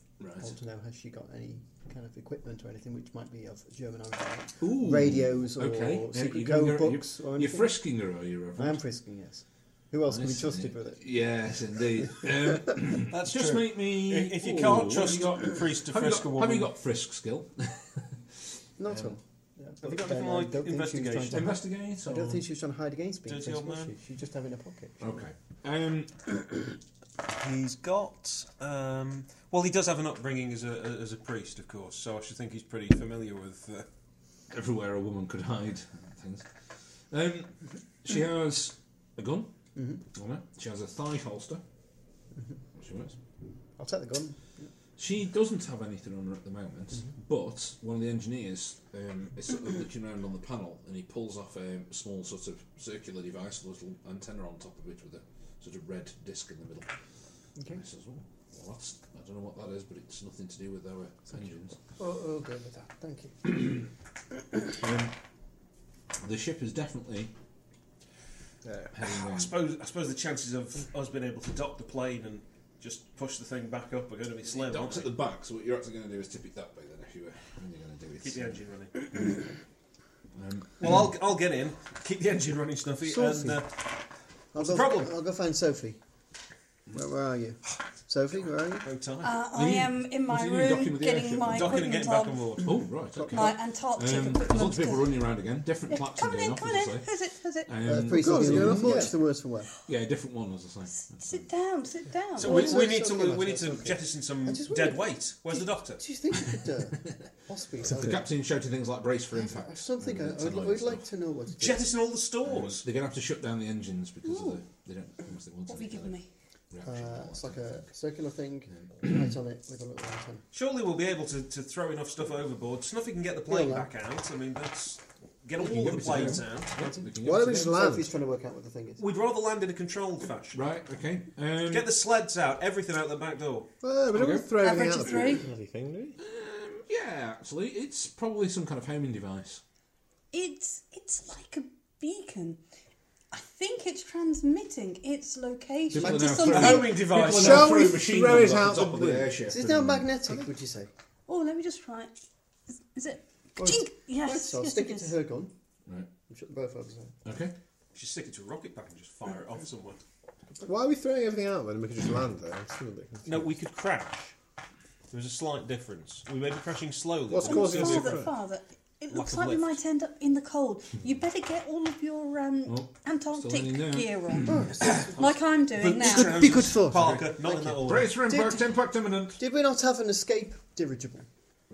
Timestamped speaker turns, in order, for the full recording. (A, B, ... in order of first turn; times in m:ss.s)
0:00.2-0:00.5 A
0:00.4-0:07.7 B
0:04.6-0:08.8 A
0:08.6-0:11.0 B
0:10.1-0:18.0 A
0:13.1-0:16.7 C
0:18.8-0:25.2 B
0:19.8-0:21.5 C
0:21.3-0:22.4 A
0:23.3-0:23.9 C
0:25.0-0:26.3 A
0:27.3-0:33.9 C
0:34.5-0:36.5 A
0:37.1-0:39.5 A
0:39.8-0:40.0 B
0:40.1-0:41.6 A
0:42.8-0:43.1 A
0:43.8-0:44.7 B
0:45.0-0:56.9 A
0:57.7-1:01.8 A
1:02.0-1:03.5 B
1:04.7-1:05.1 A
1:06.2-1:07.3 A
1:08.9-1:09.6 A
1:09.1-1:15.1 C
1:14.5-1:18.6 A
1:18.2-1:18.9 C
1:20.4-1:20.9 A
1:20.8-1:23.7 C
1:23.1-1:23.6 B
1:24.5-1:26.0 B
1:24.6-1:25.1 C
1:26.9-1:28.8 B
1:28.8-1:29.4 C
1:29.2-1:32.6 D
1:29.5-1:31.8 A
1:31.4-1:32.8 C
1:32.6-1:37.1 A
1:33.3-1:35.2 D
1:35.9-1:37.8 D
1:37.7-1:39.1 A
1:37.8-1:39.7 B
1:38.1-1:39.1 E
1:39.8-1:41.5 A
1:41.0-1:42.9 D
1:42.4-1:46.0 C
1:42.4-1:45.0 B
1:46.0-1:48.2 B
1:47.8-1:51.0 A
1:49.4-1:51.9 B
1:51.6-1:52.8 C
1:52.4-1:56.2 A
1:54.2-1:54.6 D
1:55.7-1:56.3 D
1:56.7-1:57.9 A
1:56.8-2:00.4 B
1:58.7-1:59.3 A
2:00.5-2:06.7 C
2:03.5-2:03.9 B
2:05.6-2:07.7 A
2:06.8-2:09.0 B
2:07.2-2:08.1 E
2:09.0-2:10.6 C
2:10.5-2:11.9 A
2:11.6-2:13.7 C
2:13.8-2:16.2 E
2:14.1-2:14.5 A
2:14.6-2:15.4 D
2:16.2-2:19.6 A
2:20.3-2:22.6 D
2:23.3-2:27.0 D
2:25.9-2:30.1 A
2:26.4-2:27.8 C
2:27.3-2:29.3 E
2:29.5-2:30.9 B
2:31.3-2:32.1 D
2:32.9-2:35.1 D
2:33.6-2:35.5 B
2:36.3-2:37.1 B
2:37.2-2:37.5 A
2:37.9-2:40.0 C
2:40.6-2:43.4 E
2:43.2-2:44.3 C
2:45.1-2:48.3 C
2:47.3-2:48.3 E
2:47.4-2:56.5 D
2:49.1-2:49.8 C
2:52.6-2:55.1 A
2:54.4-2:55.1 B
2:55.2-2:58.1 C
2:56.1-2:57.8 B
2:56.5-2:59.4 A
2:59.4-3:01.3 B